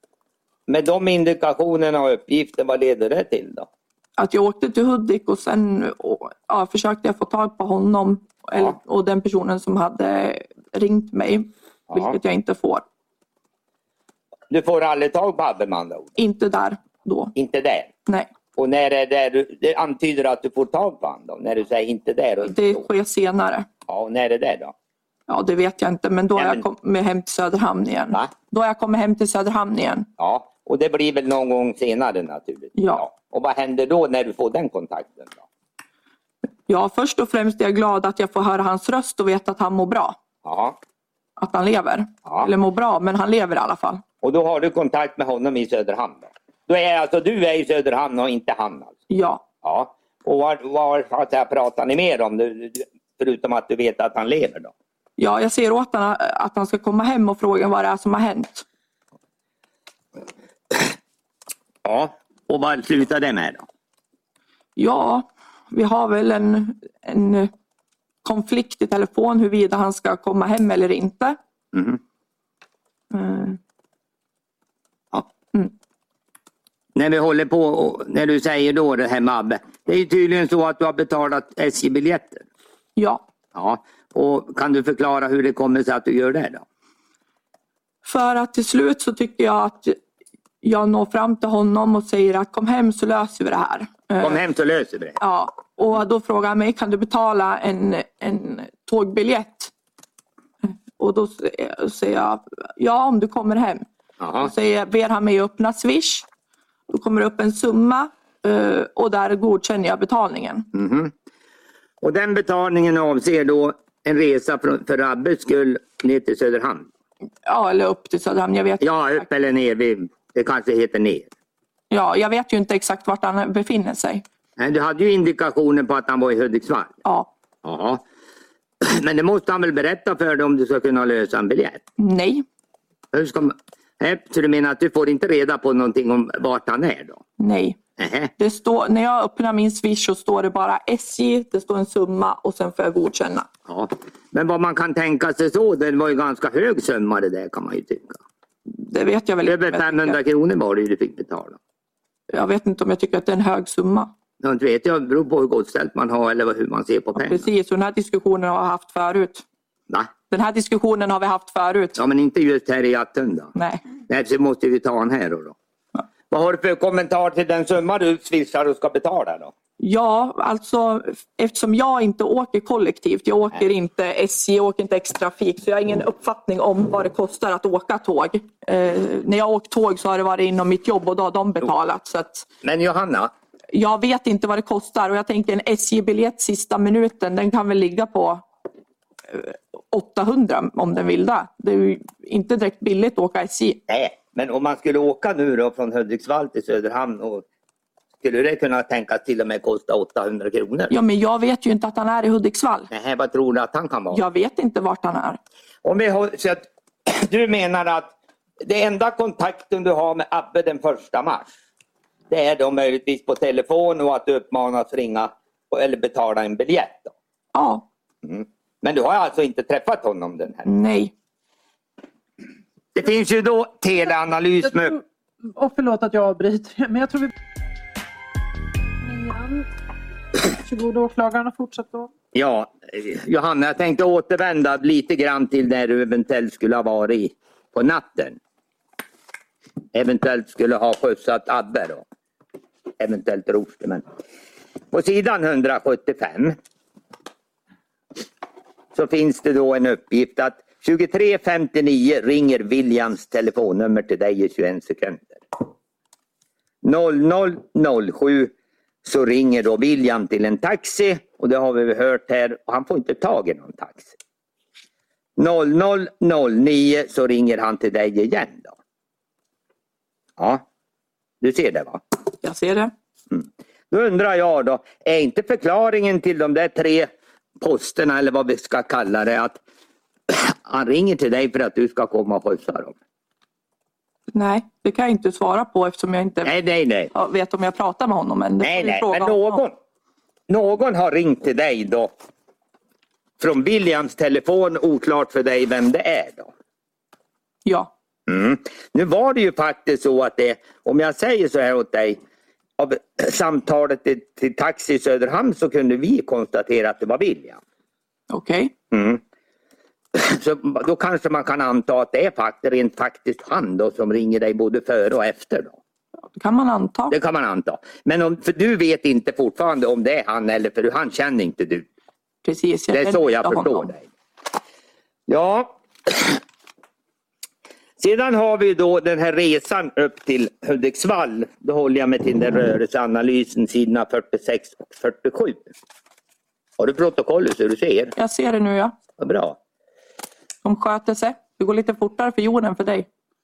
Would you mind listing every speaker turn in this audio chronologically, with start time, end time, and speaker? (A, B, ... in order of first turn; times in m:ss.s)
0:00.7-0:03.7 A
0:04.2-0:12.8 B
0:11.9-0:12.2 A
0:14.5-0:16.2 A
0:16.2-0:17.3 B
0:17.4-0:17.9 A
0:18.5-0:22.8 A
0:22.4-0:23.7 B
0:23.9-0:24.7 A
0:25.3-0:30.1 B
0:26.4-0:26.6 A
0:30.2-0:35.4 A
0:32.8-0:33.0 B
0:36.7-0:40.2 B
0:40.4-0:40.8 A
0:41.4-0:44.0 B
0:42.3-0:42.5 A
0:44.2-0:49.0 A
0:49.1-0:49.4 B
0:49.6-0:54.7 A
0:55.2-0:58.6 B
1:01.8-1:03.6 A
1:04.8-1:07.5 B
1:08.2-1:11.4 B
1:11.7-1:12.0 A
1:13.1-1:13.6 B
1:17.0-1:22.5 A
1:23.0-1:23.2 B
1:23.5-1:26.6 A
1:28.0-1:30.0 B
1:30.6-1:34.4 B
1:34.2-1:35.2 A
1:35.2-1:39.7 B
1:40.7-1:43.8 B
1:44.2-1:44.5 A
1:44.4-1:46.3 B
1:46.9-1:50.7 B
1:50.7-1:51.1 A
1:52.0-1:56.9 A
1:57.4-1:59.2 B
1:58.8-2:01.3 A
2:01.9-2:04.2 B
2:04.6-2:07.0 A
2:07.0-2:07.3 B
2:07.6-2:08.0 A
2:08.8-2:11.8 A
2:12.0-2:12.4 B
2:13.1-2:17.2 A
2:17.4-2:17.8 B
2:18.0-2:18.3 A
2:18.4-2:23.5 B
2:23.7-2:28.2 A
2:28.7-2:30.2 B
2:29.4-2:31.6 A
2:32.3-2:34.1 B
2:34.4-2:37.5 A
2:37.2-2:39.4 B
2:40.3-2:42.0 B
2:42.0-2:43.5 A
2:43.6-2:43.8 B
2:44.0-2:45.6 A
2:46.3-2:49.5 A
2:49.8-3:02.5 B
3:02.6-3:03.3 A
3:03.7-3:08.4 B
3:09.3-3:13.8 B
3:13.9-3:17.4 A
3:18.2-3:20.9 A
3:20.9-3:22.9 B
3:22.9-3:24.2 A
3:24.1-3:25.4 B
3:25.8-3:31.5 A
3:32.3-3:37.1 A
3:37.5-3:37.8 B
3:38.2-3:40.7 A
3:40.6-3:41.1 B
3:42.9-3:45.0 A
3:44.7-3:45.0 C
3:45.6-3:47.3 C
3:49.0-3:49.7 C
3:50.6-3:52.1 C
3:52.3-3:58.4 A
3:59.9-4:02.0 A
4:03.0-4:04.1 A
4:04.9-4:06.6 A
4:08.9-4:15.4 A
4:16.8-4:18.5 A
4:19.0-4:24.1 A
4:25.4-4:28.8 A
4:31.4-4:32.0 A
4:32.4-4:32.9 B
4:33.3-4:37.1 A
4:37.6-4:39.6 A
4:40.3-4:43.0 A
4:44.3-4:46.5 B
4:46.4-4:47.1 A
4:47.1-4:49.6 B
4:48.6-4:49.8 A
4:50.5-4:52.1 A
4:53.4-4:56.5 A
4:57.6-4:57.9 B
4:58.3-5:02.2 A
5:02.8-5:07.6 A
5:08.3-5:08.7 B
5:08.9-5:09.2 A
5:10.1-5:15.8 A
5:16.4-5:17.2 B
5:17.1-5:21.9 A
5:22.4-5:23.9 B
5:22.9-5:24.0 A
5:25.3-5:26.4 A
5:28.0-5:35.7 A
5:36.8-5:38.1 A
5:38.2-5:38.9 B
5:39.2-5:39.6 A
5:40.6-5:43.1 B